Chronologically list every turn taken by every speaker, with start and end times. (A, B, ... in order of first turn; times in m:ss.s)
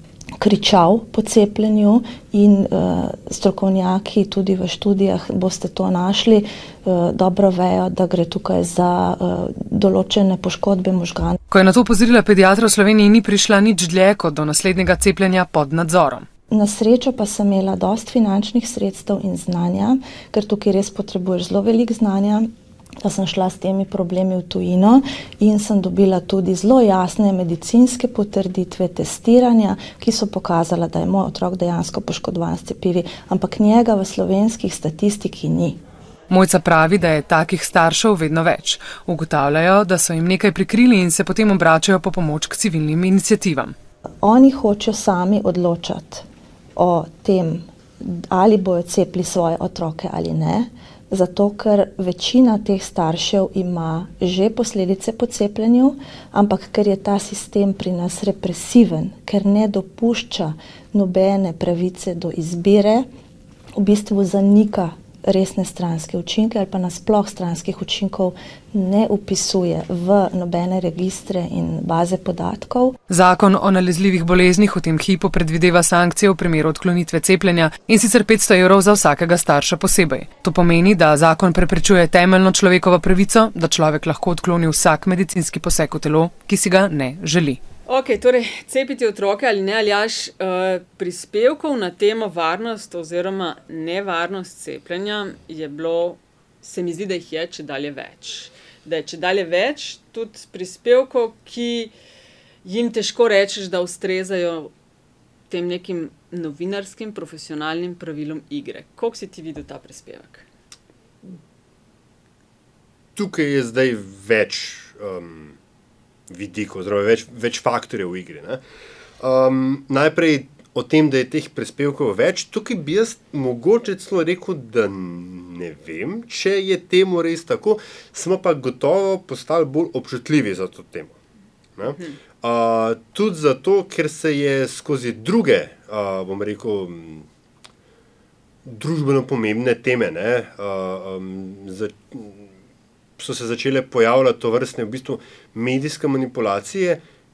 0:00.4-0:11.4 A
0:11.5-0:16.3 B
0:16.5-0:22.5 A
0:23.0-0:35.8 A
0:36.3-0:43.7 B
0:44.2-1:03.1 A
1:03.8-1:13.0 A
1:13.1-1:27.6 B
1:27.9-1:41.9 C
1:42.6-1:44.7 C
1:45.5-1:50.4 C
1:53.2-1:55.6 D
1:56.3-1:58.6 D
1:59.2-2:11.1 D
2:11.8-2:17.2 D
2:11.9-2:12.2 C
2:18.6-2:22.5 D
2:23.2-2:27.0 D